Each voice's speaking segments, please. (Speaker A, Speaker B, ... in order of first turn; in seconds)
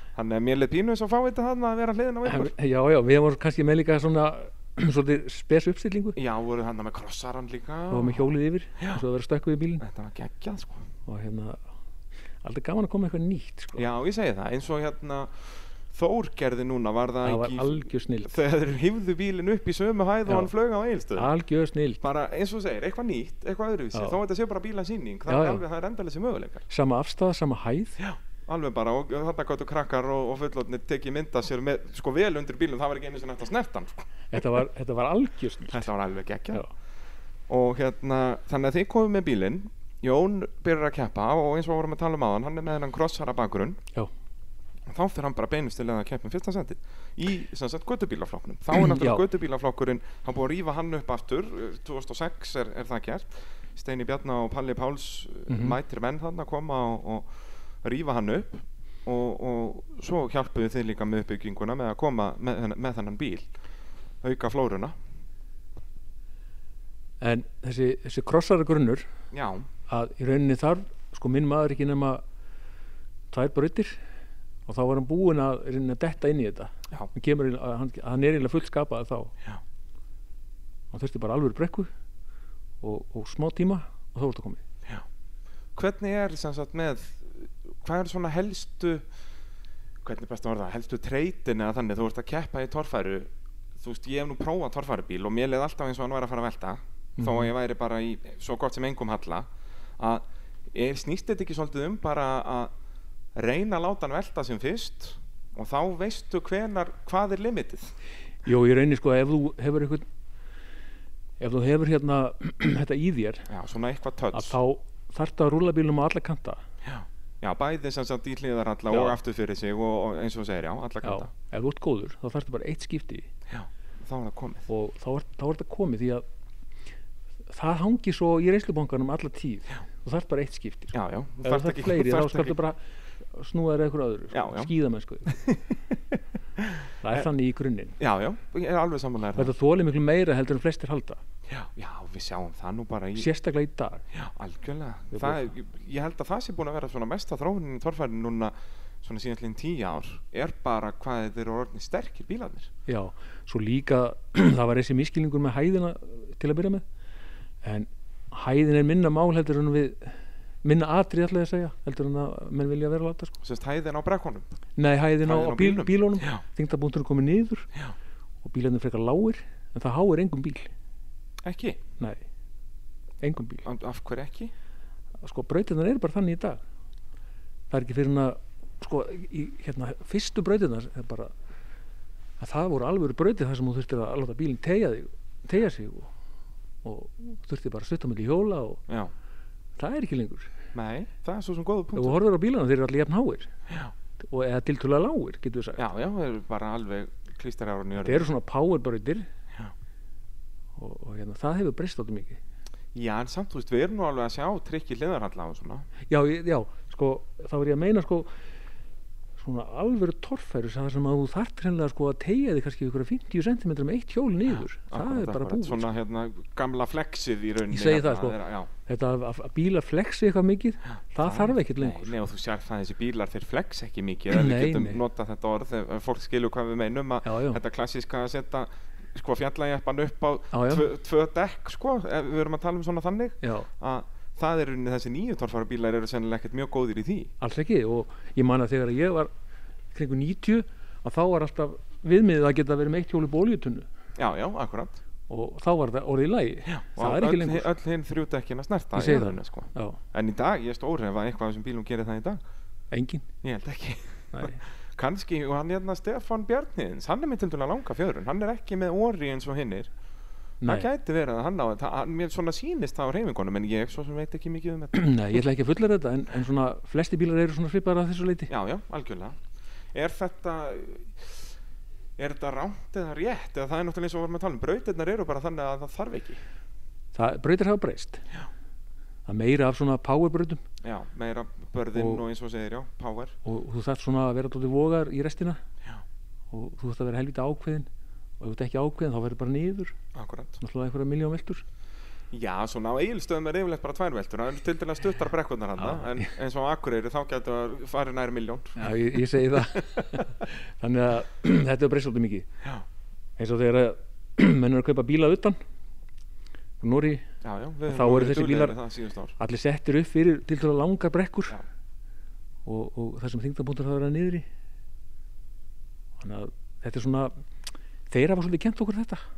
Speaker A: 0.1-2.5, 6.2-8.3, 9.8-10.8, 13.8-21.3, 22.0-26.6, 28.0-34.0, 35.7-36.6, 37.5-43.8, 44.9-57.3, 57.8-63.5, 64.2-64.9, 69.3-69.7, 85.7-89.0, 90.0-99.5, 100.0-102.7, 103.3-107.9, 113.5-114.6, 116.8-121.3, 123.5-124.7, 130.9-132.6, 134.3-134.7, 135.3-135.6, 136.6-137.2, 138.0-139.5, 141.5-143.3, 144.1-152.7, 163.4-164.5, 165.2-166.4, 171.4-171.8, 173.6-174.5, 190.7-192.2, 193.7-193.9, 195.8-198.3, 202.9-205.9, 214.9-218.7, 221.2-237.3, 244.2-245.0, 246.7-252.4, 253.4-259.9, 260.6-264.9, 268.5-269.4, 269.9-271.5, 272.2-276.4, 280.8-283.4, 290.1-290.6, 292.3-299.0, 307.4-309.3
Speaker B: 2.2-6.2, 7.9-9.8, 11.1-11.6, 12.4-13.8, 17.2-18.3, 20.2-20.5, 21.1-22.0, 25.3-25.6, 26.7-28.0, 34.3-35.9, 48.8-49.2, 55.5-55.8, 67.2-69.1, 69.9-72.2, 73.3-74.0, 74.7-79.3, 80.9-81.9, 82.8-84.6, 97.2-97.5, 108.4-110.0, 111.4-113.5, 114.3-116.6, 118.9-119.2, 121.0-123.3, 124.7-126.2, 127.5-132.8, 133.3-135.4, 137.0-138.0, 139.3-141.2, 143.2-144.0, 145.1-145.5, 152.9-156.8, 157.6-163.3, 164.8-167.7, 168.4-170.7, 173.2-173.6, 175.2-176.6, 177.7-181.3, 182.4-186.1, 186.8-188.8, 189.8-190.5, 191.9-193.5, 194.2-195.8, 198.0-199.3, 200.8-202.4, 206.1-208.3, 209.4-215.9, 217.7-222.1, 224.3-225.0, 227.2-227.6, 230.5-230.9, 233.4-233.7, 237.4-239.3, 239.9-243.8, 245.3-247.7, 248.9-250.0, 252.9-253.2, 254.3-254.6, 260.6-260.9, 264.9-268.5, 277.1-278.2, 279.2-280.6, 281.9-282.2, 283.4-285.6, 286.5-287.9, 288.4-289.9, 290.6-291.6, 295.8-296.3, 298.8-302.5, 303.4-305.6, 306.8-307.2, 307.9-308.8, 309.4-311.6, 312.6-314.4, 316.2-317.3, 318.1-319.2